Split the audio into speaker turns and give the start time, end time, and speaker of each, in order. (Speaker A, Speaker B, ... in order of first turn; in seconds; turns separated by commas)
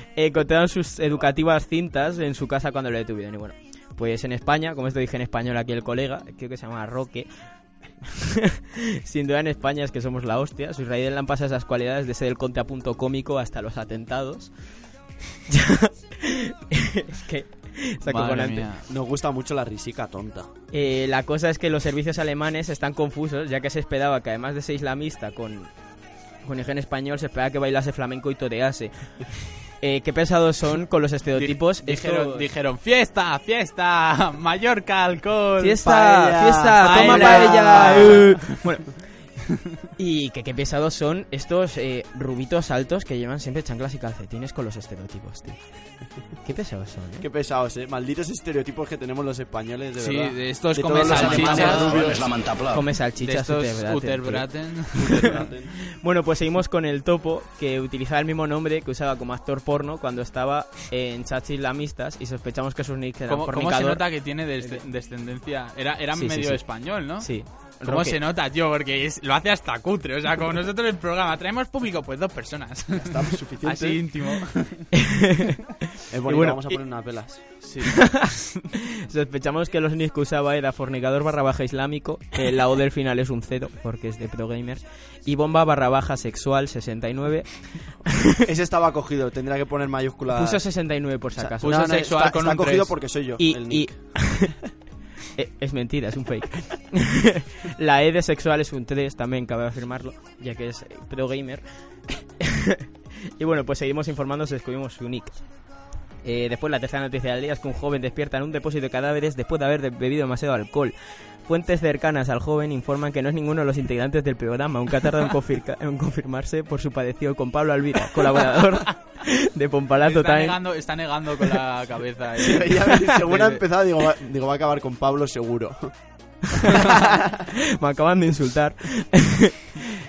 Speaker A: 0.1-7.5, Speaker A: 9.0-14.8, Speaker A: 15.5-18.7, Speaker B: 18.1-18.8, Speaker C: 18.8-20.5, Speaker A: 20.7-25.8, Speaker A: 26.4-32.5, Speaker B: 31.3-35.8, Speaker A: 35.6-39.4, Speaker C: 35.8-38.6, Speaker B: 36.8-38.4, Speaker A: 40.0-47.2, Speaker C: 47.2-52.3, Speaker B: 50.0-52.1, Speaker D: 51.0-53.0, Speaker A: 52.6-55.3, Speaker B: 53.1-55.4, Speaker C: 54.9-55.7, Speaker A: 55.8-64.8, Speaker B: 63.3-74.9, Speaker A: 66.1-68.2, Speaker C: 72.9-74.1, Speaker A: 75.0-75.6, Speaker C: 76.1-77.6, Speaker A: 76.2-76.8, Speaker B: 77.5-78.5, Speaker A: 78.0-78.3, Speaker A: 79.1-88.4, Speaker C: 88.4-94.4, Speaker A: 90.3-92.0, Speaker B: 91.6-93.0, Speaker A: 93.2-94.6, Speaker A: 95.3-102.8, Speaker A: 103.4-120.9, Speaker B: 120.0-123.3, Speaker C: 122.4-126.3, Speaker A: 127.8-129.6